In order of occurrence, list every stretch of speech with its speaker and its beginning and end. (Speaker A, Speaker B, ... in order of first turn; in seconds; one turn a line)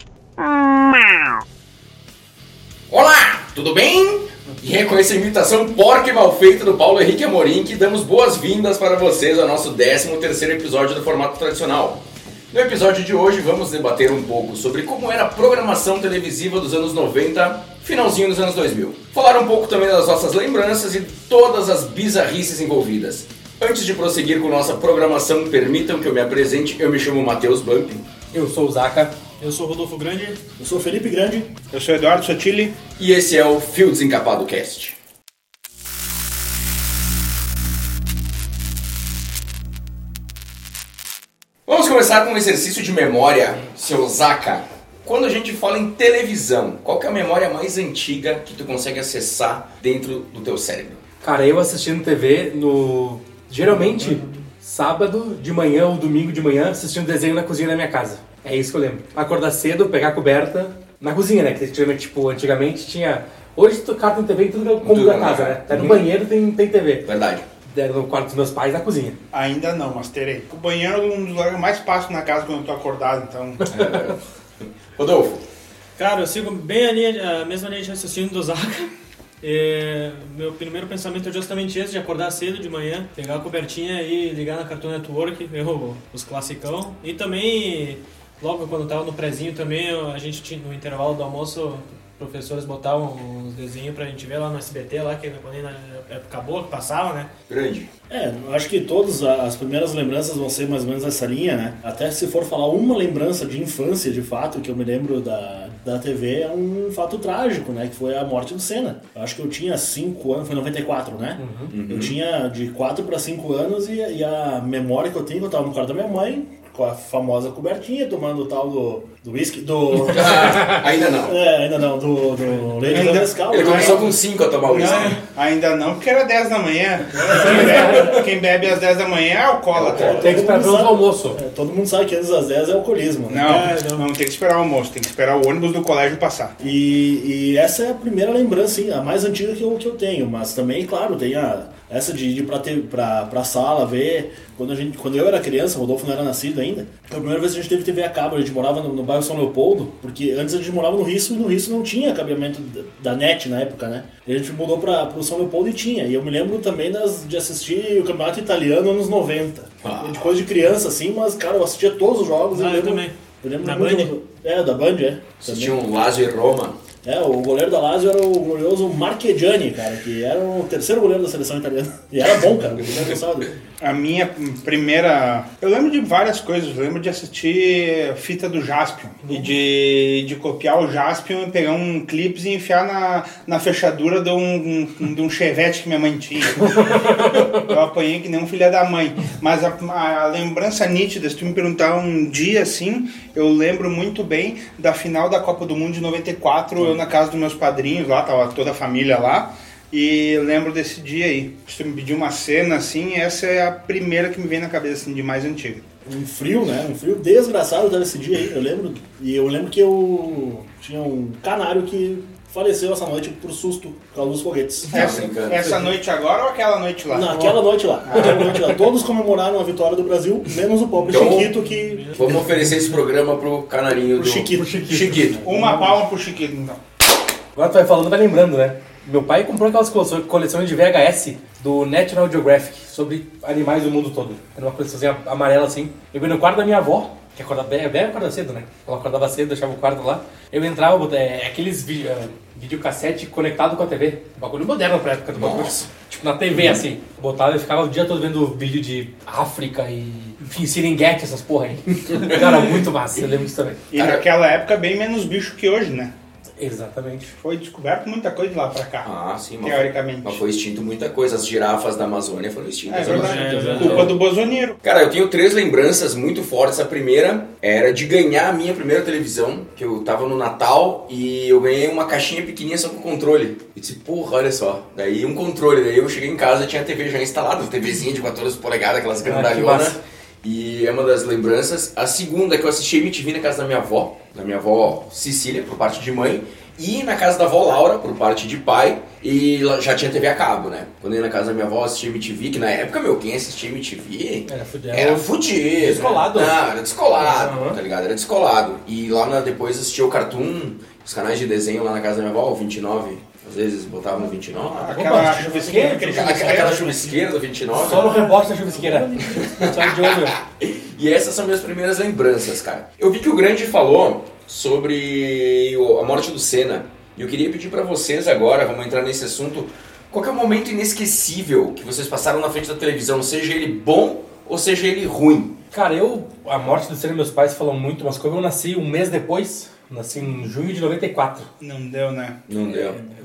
Speaker A: 2.9-28.0
Speaker B: 28.3-29.1
Speaker C: 29.4-30.4
Speaker D: 30.6-31.5
Speaker E: 31.7-32.8
Speaker A: 33.0-35.0
Speaker A: 41.7-51.0
Speaker B: 51.2-67.1
Speaker C: 53.6-54.5
Speaker A: 64.8-66.1
Speaker A: 67.0-67.5
Speaker B: 67.7-69.2
Speaker E: 69.3-73.6
Speaker B: 73.6-74.1
Speaker A: 73.7-74.2
Speaker A: 75.0-75.4
Speaker C: 76.0-97.3
Speaker A: 97.5-97.9
Speaker D: 98.1-124.2
Speaker B: 111.4-111.7
Speaker A: 111.7-112.2
Speaker A: 120.0-121.4
Speaker E: 122.9-124.2
Speaker A: 123.5-125.2
Speaker E: 124.7-130.4
Speaker B: 127.5-128.1
Speaker A: 129.7-130.2
Speaker D: 129.9-133.7
Speaker B: 130.2-131.4
Speaker E: 133.3-136.5
Speaker C: 133.4-134.1
Speaker D: 136.6-165.8
Speaker A: 159.8-160.3
Speaker C: 162.5-164.1
Speaker A: 165.4-166.8
Speaker D: 167.0-173.6
Speaker A: 172.8-173.2
Speaker E: 173.8-205.8
Speaker C: 179.2-179.5
Speaker B: 186.8-187.5
Speaker D: 206.1-215.1
Speaker A: 214.9-215.9
Speaker E: 214.9-217.4
Speaker D: 217.1-222.1
Speaker E: 218.0-218.6
Speaker A: 221.1-221.5
Speaker C: 221.7-222.5
Speaker A: 222.2-225.4
Speaker D: 224.1-226.0
Speaker B: 224.5-225.3
Speaker E: 225.4-226.8
Speaker B: 227.6-253.8
Speaker A: 245.3-245.9
Speaker A: 246.5-246.8
Speaker A: 252.1-253.3
Speaker E: 253.9-256.1
Speaker A: 253.9-254.3
Speaker B: 256.6-257.3
Speaker E: 257.4-259.1
Speaker A: 259.0-264.1
Speaker E: 259.6-260.4
Speaker E: 262.9-264.8
Speaker D: 263.0-264.1
Speaker C: 263.1-264.1
Speaker A: 264.8-305.1
Speaker B: 279.2-280.0
Speaker B: 294.5-296.6
Speaker B: 297.2-297.8
Speaker E: 304.7-306.9
Speaker B: 304.8-306.9
Speaker A: 306.1-308.1
Speaker B: 307.8-310.4
Speaker C: 307.8-309.7
Speaker A: 309.4-325.6
Speaker B: 325.7-331.5
Speaker E: 331.6-332.4
Speaker A: 332.5-333.0